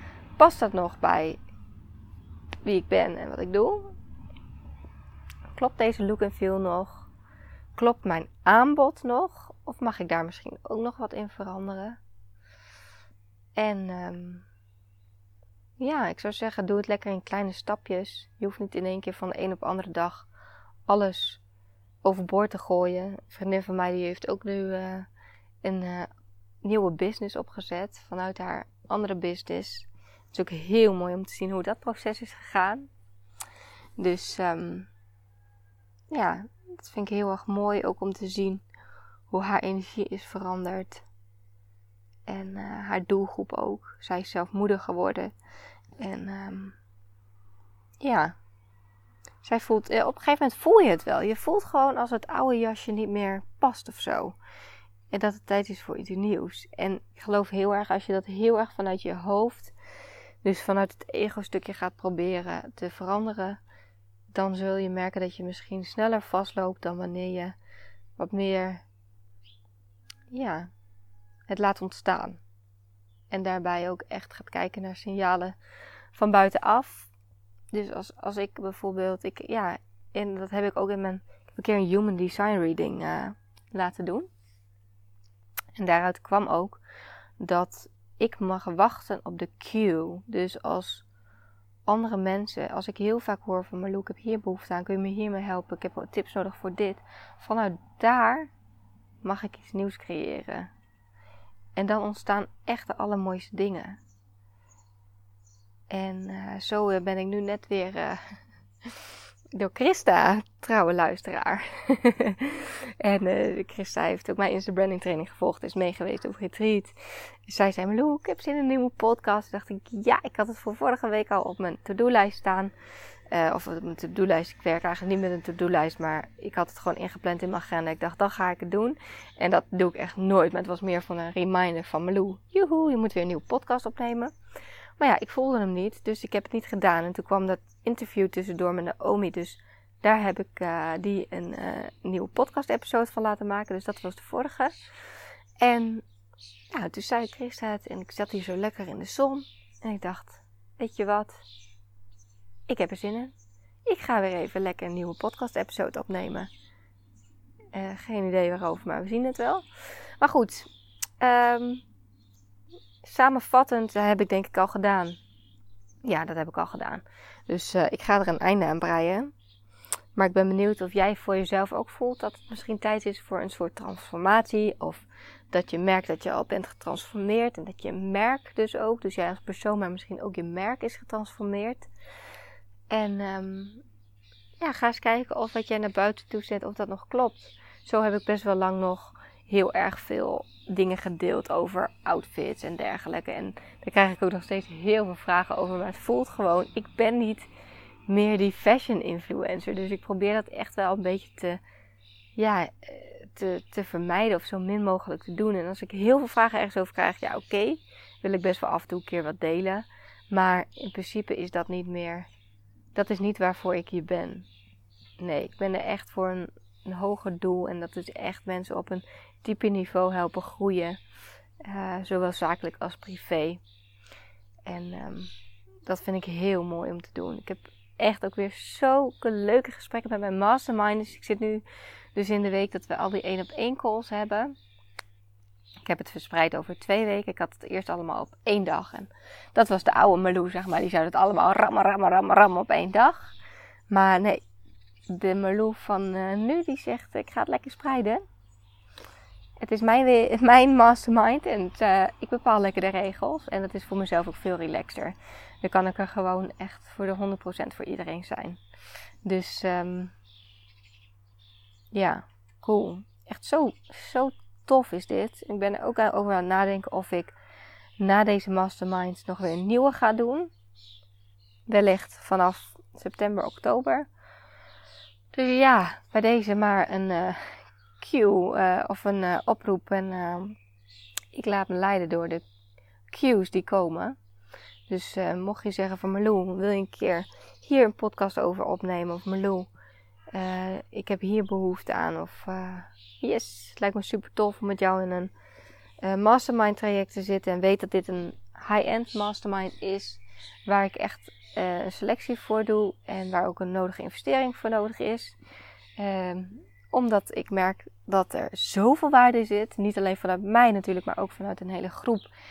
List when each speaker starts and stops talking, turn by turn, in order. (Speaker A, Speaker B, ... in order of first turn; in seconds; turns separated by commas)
Speaker A: 0.4-1.4, Speaker A: 2.6-3.9, Speaker A: 5.5-7.1, Speaker A: 7.8-12.0, Speaker A: 13.6-14.4, Speaker A: 15.8-20.3, Speaker A: 20.9-21.4, Speaker A: 22.0-25.1, Speaker A: 25.6-26.1, Speaker A: 26.6-32.9, Speaker A: 34.0-34.9, Speaker A: 36.1-38.6, Speaker A: 39.3-41.0, Speaker A: 42.3-45.3, Speaker A: 46.0-46.8, Speaker A: 48.0-48.3, Speaker A: 49.4-54.4, Speaker A: 55.1-59.7, Speaker A: 60.4-63.6, Speaker A: 64.3-67.5, Speaker A: 68.2-68.8, Speaker A: 70.3-70.7, Speaker A: 71.5-72.4, Speaker A: 73.3-75.5, Speaker A: 76.1-77.1, Speaker A: 77.7-84.3, Speaker A: 85.8-86.8, Speaker A: 87.4-91.0, Speaker A: 91.9-98.5, Speaker A: 99.2-100.7, Speaker A: 101.8-104.0, Speaker A: 105.9-108.2, Speaker A: 109.5-116.9, Speaker A: 117.5-122.7, Speaker A: 123.3-134.3, Speaker A: 135.0-144.8, Speaker A: 145.6-146.1, Speaker A: 146.7-151.4, Speaker A: 152.7-153.3, Speaker A: 153.9-156.5, Speaker A: 157.7-161.8, Speaker A: 163.0-165.2, Speaker A: 166.0-169.3, Speaker A: 170.1-181.9, Speaker A: 182.9-183.8, Speaker A: 184.6-197.5, Speaker A: 198.1-201.6, Speaker A: 202.4-212.3, Speaker A: 212.9-214.5, Speaker A: 215.2-221.0, Speaker A: 221.6-223.6, Speaker A: 224.7-225.3, Speaker A: 225.9-231.6, Speaker A: 232.1-234.5, Speaker A: 235.8-243.3, Speaker A: 243.9-244.4, Speaker A: 245.1-248.2, Speaker A: 249.6-258.6, Speaker A: 259.2-260.1, Speaker A: 261.9-267.4, Speaker A: 268.0-270.5, Speaker A: 271.7-274.1, Speaker A: 275.3-280.6, Speaker A: 281.3-282.4, Speaker A: 283.1-284.1, Speaker A: 284.9-289.7, Speaker A: 290.3-295.3, Speaker A: 296.0-305.4, Speaker A: 306.0-312.2